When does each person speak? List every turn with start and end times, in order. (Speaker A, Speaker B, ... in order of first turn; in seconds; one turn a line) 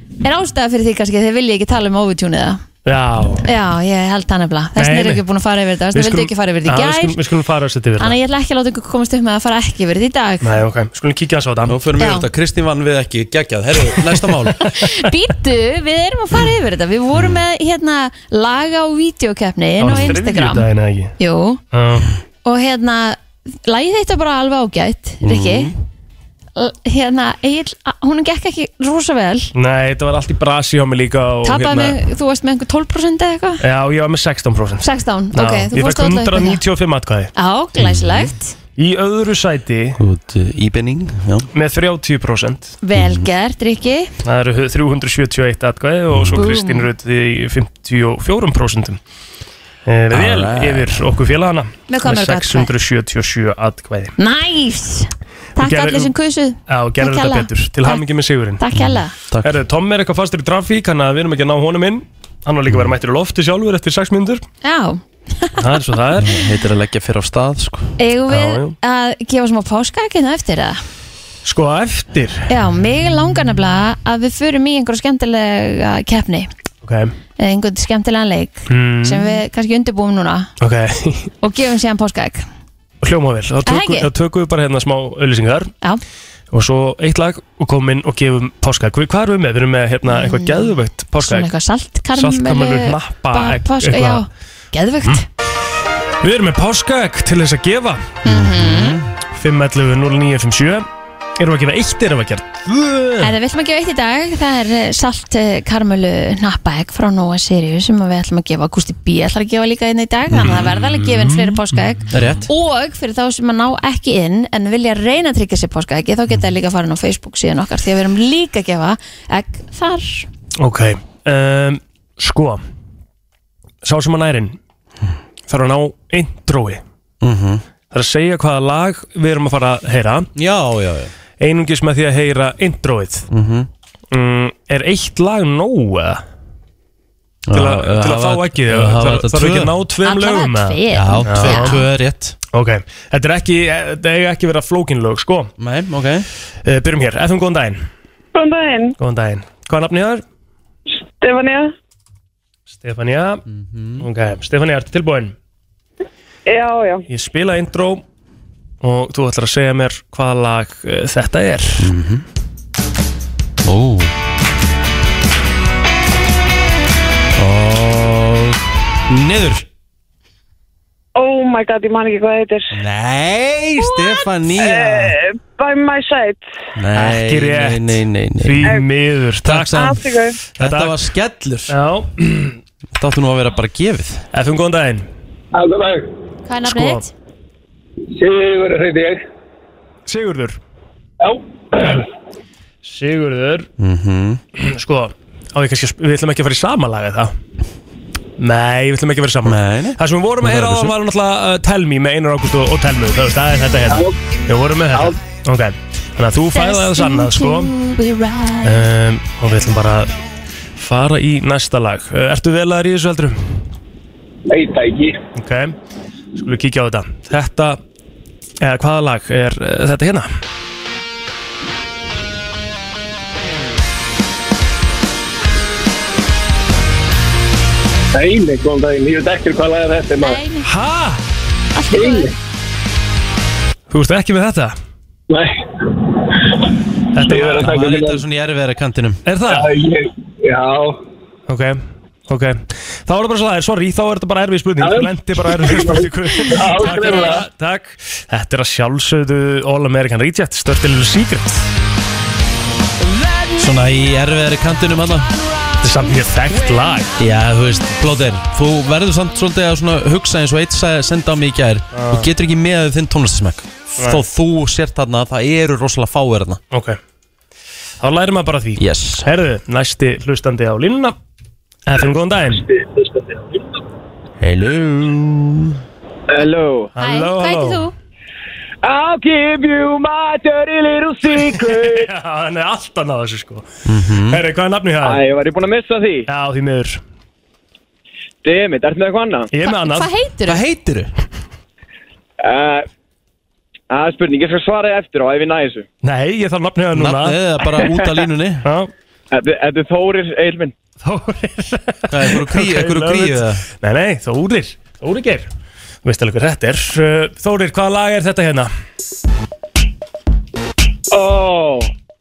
Speaker A: 0.2-2.6
Speaker B: 2.9-3.5
Speaker A: 3.4-7.2
Speaker B: 4.8-5.2
Speaker B: 5.9-8.2
Speaker A: 8.0-10.6
Speaker B: 10.4-11.8
Speaker C: 11.7-14.7
Speaker A: 12.0-12.3
Speaker A: 14.7-20.7
Speaker C: 17.1-17.4
Speaker B: 19.8-21.1
Speaker A: 21.2-21.6
Speaker B: 21.7-22.1
Speaker A: 22.4-25.7
Speaker C: 25.2-25.8
Speaker A: 26.6-29.5
Speaker B: 29.6-32.0
Speaker A: 31.4-33.6
Speaker B: 33.6-37.3
Speaker A: 34.8-36.6
Speaker A: 37.4-38.5
Speaker C: 37.8-38.3
Speaker B: 38.8-40.0
Speaker C: 40.0-41.5
Speaker B: 41.5-42.8
Speaker A: 42.8-44.1
Speaker C: 43.0-43.3
Speaker B: 44.2-49.0
Speaker C: 46.1-46.5
Speaker A: 46.4-46.9
Speaker B: 49.9-54.1
Speaker C: 50.1-51.1
Speaker A: 51.9-52.7
Speaker A: 54.2-58.0
Speaker B: 55.6-56.1
Speaker B: 56.7-58.6
Speaker A: 58.6-59.1
Speaker C: 58.7-59.6
Speaker B: 59.4-64.4
Speaker A: 64.6-65.8
Speaker B: 65.6-66.3
Speaker C: 66.2-68.0
Speaker A: 68.0-70.8
Speaker B: 68.3-68.8
Speaker B: 71.5-72.5
Speaker A: 72.5-76.5
Speaker B: 76.8-77.1
Speaker A: 77.4-80.5
Speaker B: 78.7-79.4
Speaker B: 80.6-81.3
Speaker A: 81.4-82.5
Speaker B: 83.0-85.7
Speaker A: 83.7-84.1
Speaker B: 86.5-91.5
Speaker A: 90.1-90.7
Speaker A: 91.2-95.2
Speaker B: 92.2-94.3
Speaker B: 96.2-98.0
Speaker C: 98.2-99.1
Speaker A: 98.2-99.0
Speaker B: 99.3-100.8
Speaker B: 101.4-103.3
Speaker A: 103.2-120.3
Speaker C: 110.3-110.7
Speaker B: 110.4-111.6
Speaker C: 112.1-112.5
Speaker B: 120.6-122.6
Speaker B: 123.8-124.6
Speaker B: 125.5-126.8
Speaker C: 127.2-127.6
Speaker B: 127.9-130.3
Speaker C: 130.3-131.1
Speaker B: 131.4-133.3
Speaker C: 133.3-133.7
Speaker B: 134.1-136.2
Speaker C: 137.5-139.8
Speaker B: 137.5-141.8
Speaker A: 140.0-141.8
Speaker C: 140.9-142.4
Speaker B: 142.5-145.5
Speaker C: 145.6-146.3
Speaker B: 146.7-147.8
Speaker D: 148.3-148.9
Speaker B: 149.0-150.2
Speaker D: 151.1-151.7
Speaker B: 152.8-153.4
Speaker C: 153.5-154.1
Speaker B: 154.0-155.3
Speaker D: 156.5-157.0
Speaker B: 157.1-158.0
Speaker B: 158.8-161.9
Speaker C: 161.8-162.2
Speaker C: 163.6-164.1
Speaker C: 167.4-169.7
Speaker D: 171.2-172.8
Speaker C: 172.7-175.2
Speaker D: 173.8-176.5
Speaker C: 176.8-178.8
Speaker B: 176.9-180.0
Speaker C: 179.4-181.8
Speaker D: 179.8-180.4
Speaker B: 180.6-181.0
Speaker B: 181.7-182.6
Speaker C: 182.9-184.2
Speaker B: 184.3-185.1
Speaker E: 185.5-186.1
Speaker A: 186.5-187.1
Speaker B: 186.7-187.1
Speaker E: 188.2-189.2
Speaker B: 190.1-190.6
Speaker E: 191.2-192.1
Speaker B: 192.8-193.7
Speaker C: 193.8-194.4
Speaker B: 194.6-197.3
Speaker B: 198.4-207.7
Speaker C: 199.4-200.9
Speaker E: 203.9-204.2
Speaker A: 206.5-208.8
Speaker B: 208.6-210.2
Speaker B: 210.8-213.4
Speaker E: 214.5-215.2
Speaker B: 215.4-215.8
Speaker B: 216.4-217.8
Speaker B: 218.6-220.3
Speaker E: 228.1-230.4
Speaker A: 230.2-230.7
Speaker B: 230.6-231.2
Speaker A: 231.7-232.3
Speaker E: 231.9-232.3
Speaker B: 233.9-234.8
Speaker E: 235.3-235.6
Speaker B: 237.1-237.8
Speaker E: 237.2-238.2
Speaker C: 237.5-239.2
Speaker B: 239.3-239.7
Speaker E: 239.5-241.0
Speaker B: 241.5-251.7
Speaker E: 244.8-247.4
Speaker A: 246.8-247.4
Speaker C: 253.6-255.3
Speaker B: 255.8-257.1
Speaker C: 257.2-266.6
Speaker B: 261.9-262.3
Speaker B: 266.7-267.0
Speaker B: 268.0-271.1
Speaker C: 268.8-269.3
Speaker B: 271.9-272.6
Speaker E: 272.8-273.4
Speaker C: 274.4-275.8
Speaker F: 276.4-276.8
Speaker B: 276.9-277.9
Speaker A: 277.0-277.9
Speaker F: 278.8-281.8
Speaker B: 281.5-283.7
Speaker C: 283.9-284.4
Speaker B: 284.3-285.2
Speaker F: 285.1-286.2
Speaker B: 286.3-287.0
Speaker F: 288.4-289.5
Speaker B: 289.5-290.1
Speaker A: 289.6-290.6
Speaker C: 290.5-291.1
Speaker F: 292.4-292.8
Speaker F: 293.9-295.8
Speaker B: 296.0-297.4
Speaker C: 296.9-298.7
Speaker B: 298.6-298.9
Speaker F: 299.3-300.7
Speaker B: 301.0-305.5
Speaker C: 302.1-303.6
Speaker B: 306.0-308.7
Speaker F: 311.1-311.9